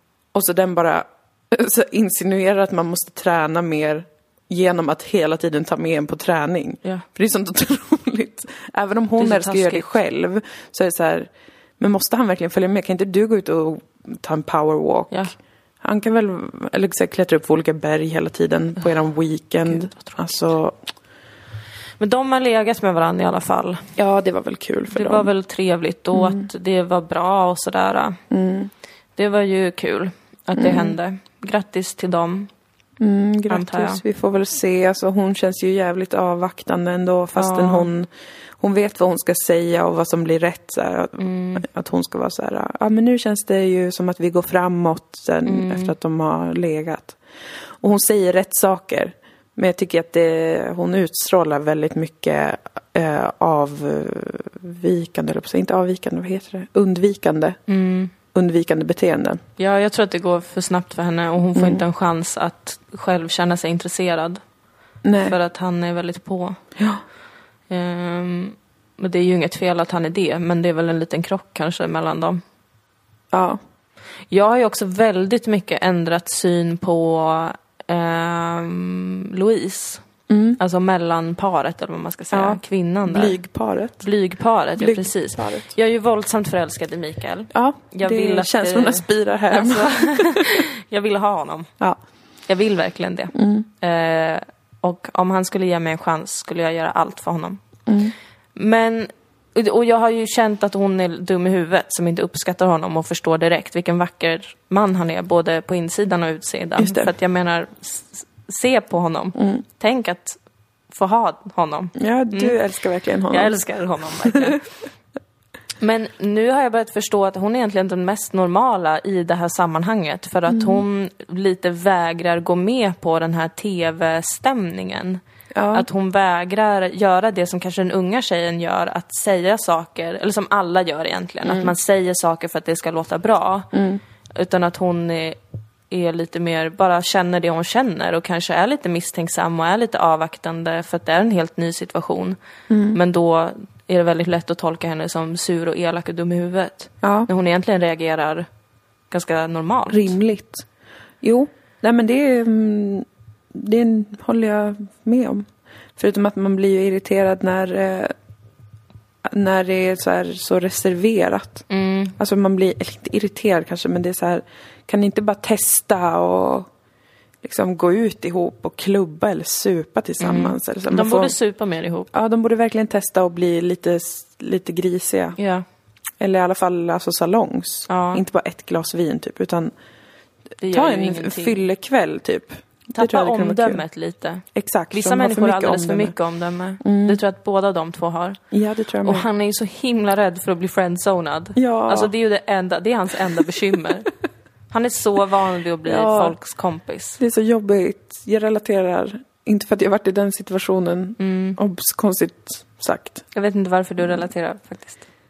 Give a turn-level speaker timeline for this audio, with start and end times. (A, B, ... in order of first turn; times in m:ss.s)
0:00.3-0:15.3 A
0:09.2-0:09.9 B
0:15.8-0:20.8 A
0:19.7-0:20.2 B
0:22.0-0:23.8 B
0:24.0-0:25.3 A
0:24.9-0:28.2 B
0:26.1-0:26.4 A
0:28.3-0:28.7 A
0:29.2-0:32.5 B
0:30.5-0:31.0 A
0:33.0-0:38.1 A
0:33.5-0:34.0 B
0:37.4-0:37.9 B
0:38.6-0:47.2 A
0:41.2-0:41.6 B
0:45.4-0:45.9 B
0:47.8-0:57.6 A
0:57.7-0:58.1 B
0:58.3-0:59.4 A
0:59.6-1:04.4 B
1:01.6-1:01.8 A
1:05.0-1:05.4 A
1:05.2-1:06.6 B
1:07.7-1:12.4 B
1:13.3-1:13.6 A
1:14.3-1:20.0 B
1:20.3-1:20.6 A
1:20.6-1:23.4 B
1:22.3-1:24.0 A
1:24.0-1:31.7 B
1:24.8-1:25.7 A
1:27.5-1:30.5 A
1:32.5-1:37.6 B
1:33.3-1:33.7 A
1:37.9-1:38.1 A
1:38.6-1:50.4 B
1:46.8-1:47.1 A
1:49.4-1:49.6 A
1:50.9-1:52.6 B
1:51.9-1:53.6 A
1:53.3-1:54.6 B
1:55.8-2:05.2 B
2:00.5-2:00.8 A
2:05.5-2:05.8 A
2:05.7-2:13.7 B
2:11.4-2:11.7 A
2:13.7-2:14.0 A
2:14.3-2:15.4 B
2:15.9-2:22.4 B
2:22.7-2:23.0 A
2:22.9-2:28.5 B
2:27.0-2:27.3 A
2:29.1-2:30.1 B
2:29.9-2:30.6 A
2:31.2-2:38.1 A
2:39.2-2:41.7 A
2:41.7-2:42.1 B
2:42.2-2:46.7 A
2:47.4-2:51.3 A
2:50.2-2:52.1 B
2:52.1-2:55.4 A
2:55.4-2:55.6 B
2:56.2-2:59.7 A
2:57.9-2:58.2 B
3:00.6-3:01.6 B
3:00.7-3:03.8 A
3:02.9-3:08.4 B
3:04.5-3:06.1 A
3:06.8-3:07.2 A
3:08.5-3:09.3 A
3:09.0-3:14.1 B
3:11.6-3:12.1 A
3:14.7-3:17.2 B
3:15.8-3:16.3 A
3:17.2-3:23.2 A
3:21.2-3:21.6 B
3:23.3-3:25.0 B